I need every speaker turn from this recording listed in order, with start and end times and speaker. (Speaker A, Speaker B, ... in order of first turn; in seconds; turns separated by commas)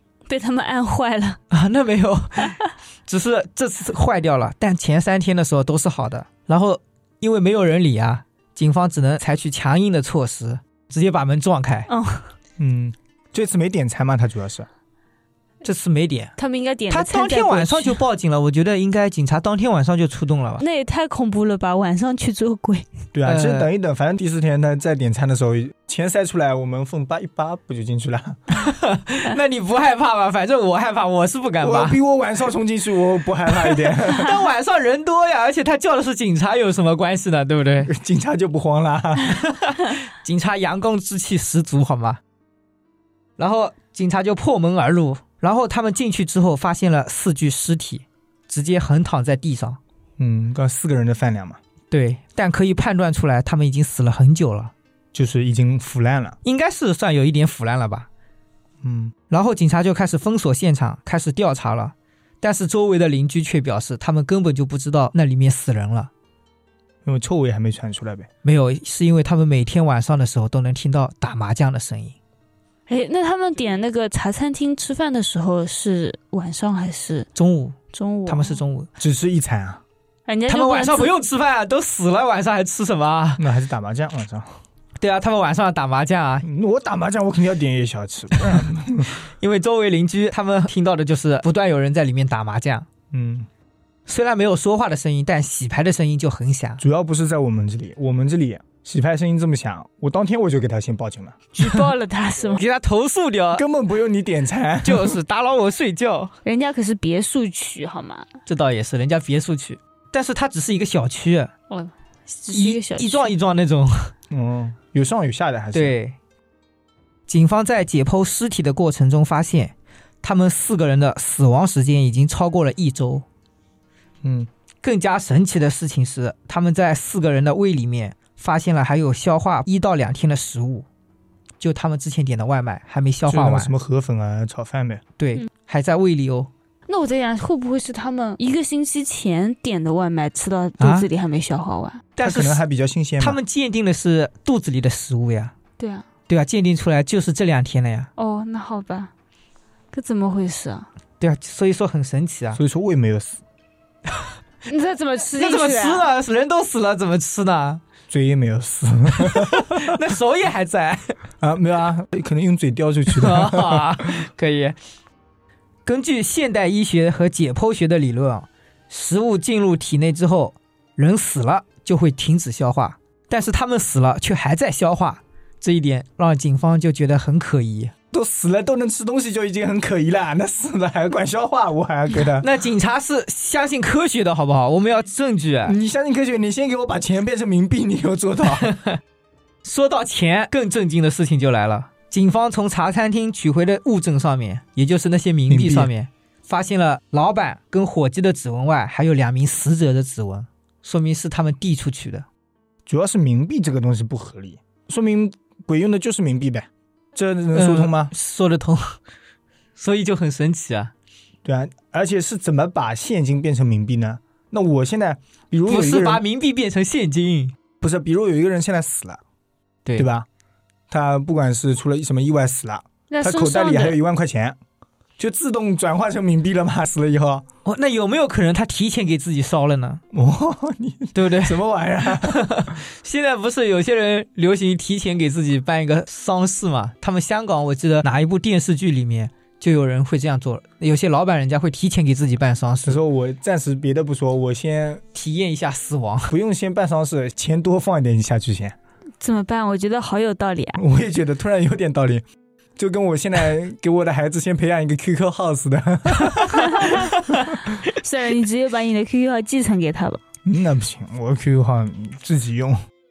Speaker A: 0.3-1.4, Speaker B: 1.5-11.9, Speaker A: 11.9-12.3, Speaker C: 12.6-14.7, Speaker B: 15.6-16.3, Speaker A: 16.4-18.0, Speaker B: 16.9-20.6, Speaker A: 20.6-22.9, Speaker C: 23.1-28.4, Speaker B: 23.3-23.7, Speaker B: 28.5-32.0, Speaker C: 31.6-34.4, Speaker B: 33.5-37.9, Speaker C: 37.9-39.4, Speaker B: 39.3-42.2, Speaker B: 43.4-49.8, Speaker C: 50.2-51.6, Speaker B: 51.9-54.7, Speaker C: 55.1-56.4, Speaker B: 56.4-58.1, Speaker C: 58.8-59.1, Speaker B: 59.3-66.1, Speaker C: 67.0-68.3, Speaker B: 68.4-72.2, Speaker A: 72.9-77.3, Speaker B: 77.3-78.9, Speaker A: 77.9-78.6, Speaker C: 79.0-79.8, Speaker A: 80.3-81.1, Speaker B: 80.5-83.4, Speaker C: 83.4-84.5, Speaker B: 85.0-86.5, Speaker C: 86.4-89.1, Speaker B: 89.1-92.9, Speaker C: 93.1-93.5, Speaker B: 94.1-96.8, Speaker C: 96.8-101.5, Speaker A: 101.6-102.6, Speaker B: 102.5-103.6, Speaker C: 103.5-105.2, Speaker B: 104.8-106.3, Speaker A: 106.5-108.3, Speaker B: 108.5-111.5, Speaker A: 111.7-113.3, Speaker B: 112.5-114.1, Speaker C: 114.3-116.0, Speaker B: 115.7-116.2, Speaker B: 117.3-123.2, Speaker C: 124.2-124.5, Speaker B: 124.8-130.9, Speaker B: 131.6-133.7, Speaker C: 133.3-135.0, Speaker B: 135.2-136.5, Speaker A: 136.9-142.1, Speaker B: 140.8-141.1, Speaker B: 142.2-142.6, Speaker C: 142.2-143.4, Speaker B: 143.2-145.5, Speaker A: 145.8-146.1, Speaker B: 146.3-148.1, Speaker A: 148.2-149.1, Speaker A: 149.9-150.9, Speaker B: 151.2-152.6, Speaker C: 152.6-153.4, Speaker A: 154.7-156.1, Speaker B: 155.4-157.8, Speaker C: 158.1-160.0, Speaker B: 159.1-161.2, Speaker C: 161.4-164.0, Speaker B: 163.1-164.8, Speaker B: 165.9-177.9, Speaker C: 178.1-182.5, Speaker B: 182.4-185.8, Speaker C: 185.7-188.7, Speaker B: 188.6-189.0, Speaker B: 189.6-202.3, Speaker C: 195.5-195.9, Speaker C: 202.9-208.1, Speaker B: 207.5-209.0, Speaker B: 209.8-210.9, Speaker C: 211.4-216.2, Speaker B: 215.7-217.6, Speaker C: 217.8-219.2, Speaker C: 220.0-220.3, Speaker C: 220.9-224.6, Speaker A: 223.1-224.0, Speaker C: 225.2-227.4, Speaker B: 227.7-230.0, Speaker C: 230.1-232.8, Speaker B: 231.1-243.0, Speaker C: 242.8-245.0, Speaker B: 245.1-246.3, Speaker C: 246.3-248.8, Speaker A: 249.2-250.8, Speaker C: 250.8-252.2, Speaker C: 252.8-257.6, Speaker A: 256.6-257.1, Speaker A: 257.8-260.2, Speaker C: 260.4-262.8